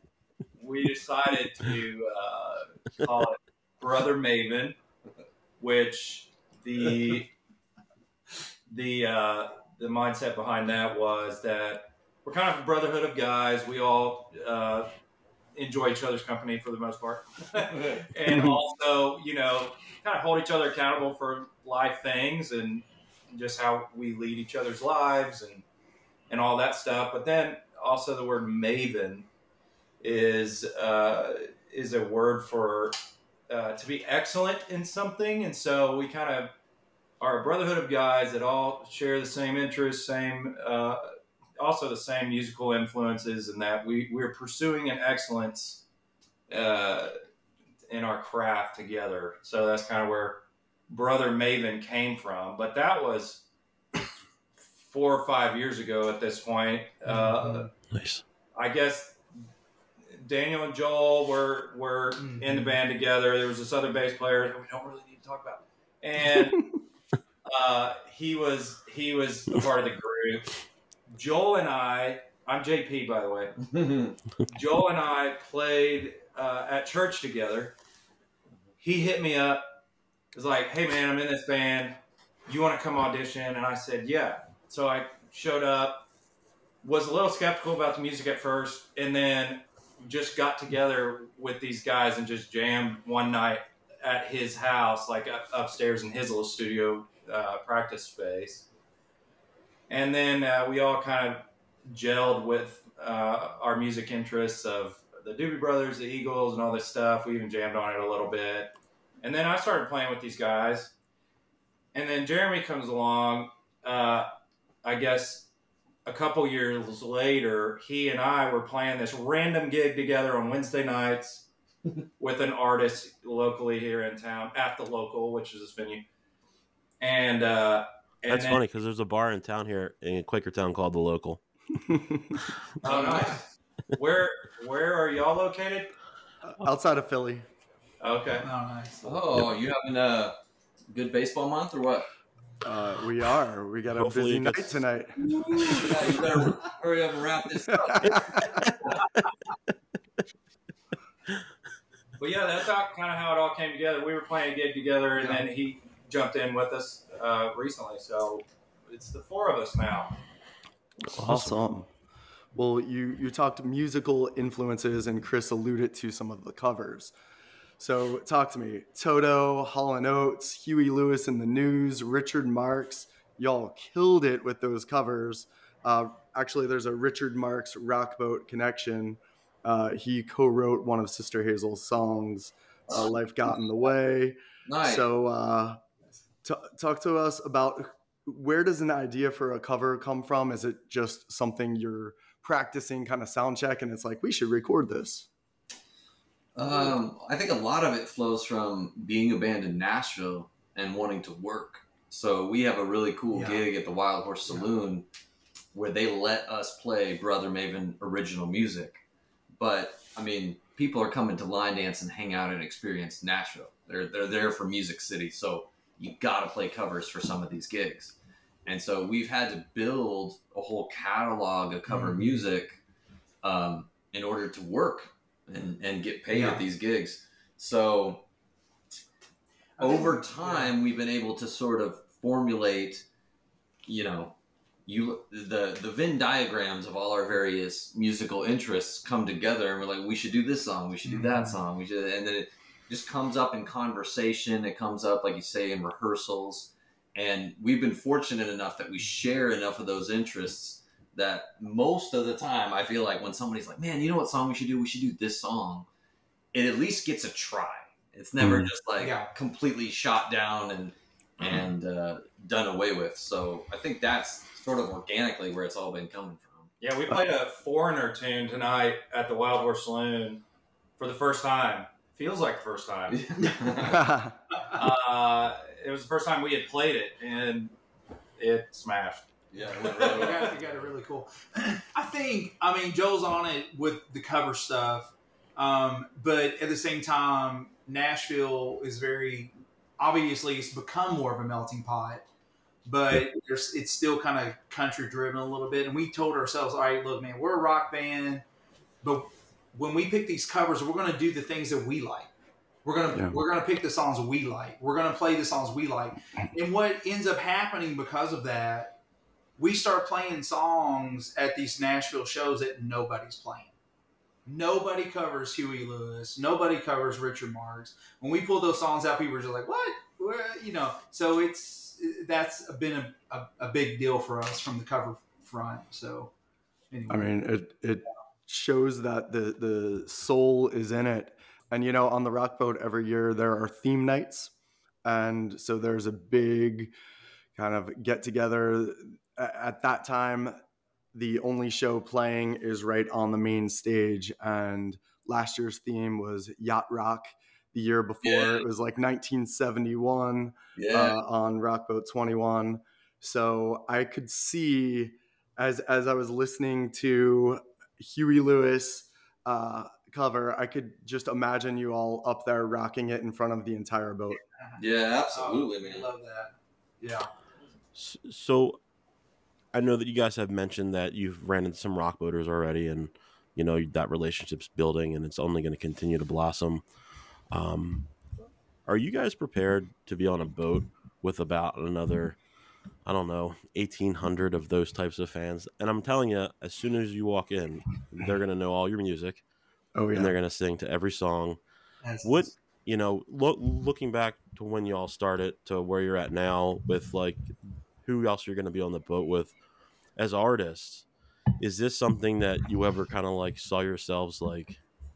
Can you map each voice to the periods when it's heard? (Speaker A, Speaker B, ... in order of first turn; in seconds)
Speaker A: 0.6-4.8, 5.6-7.3, 8.7-14.9, 15.5-25.6, 26.3-29.3, 30.0-32.9, 33.5-36.5, 37.2-45.8, 46.5-47.1, 47.9-53.4, 54.6-57.7, 58.5-59.2, 60.1-66.7, 67.4-70.5, 71.1-73.5, 74.5-77.7, 78.8-79.6, 80.3-86.0, 86.8-98.7, 99.9-110.9, 111.9-114.3, 114.8-115.5, 116.0-121.5, 122.2-126.0, 127.0-128.6, 132.8-135.9, 138.0-138.5, 152.2-160.2, 266.8-270.4, 271.0-273.2, 274.7-277.7, 278.4-280.5
Speaker B: 18.2-18.6, 136.4-137.4, 142.6-145.9, 161.1-161.9, 162.5-167.1, 167.8-185.8, 186.4-195.3, 258.4-258.7, 273.8-274.4, 303.1-303.4, 327.1-334.5, 335.0-336.9, 337.6-340.6, 341.1-364.4, 389.9-390.3
Speaker C: 57.0-57.7, 62.2-62.8, 138.4-139.2, 203.3-203.7, 221.9-222.4, 226.3-226.6, 229.8-230.7, 241.0-241.6, 259.0-259.3, 279.9-292.2, 292.9-298.4, 299.0-302.3, 302.8-309.0, 309.6-313.7, 314.4-326.3, 326.9-327.3, 364.6-367.3, 392.0-392.5
Speaker D: 57.9-58.2, 128.3-131.4, 143.9-144.8, 161.1-161.7, 367.9-368.8, 369.7-376.8, 377.5-378.1, 378.9-382.4, 383.0-389.4, 390.1-391.6, 392.2-397.5, 398.0-399.6, 400.1-401.1, 401.6-404.8
Speaker E: 73.6-74.2, 132.8-133.4, 139.0-140.4, 140.9-142.1, 145.6-148.5, 184.7-185.0, 196.5-205.1, 205.7-209.0, 209.5-222.8, 223.4-228.2, 229.8-233.1, 233.9-255.9, 256.5-266.7, 273.1-274.0, 279.5-280.6, 348.2-348.6, 350.8-351.1, 364.8-366.1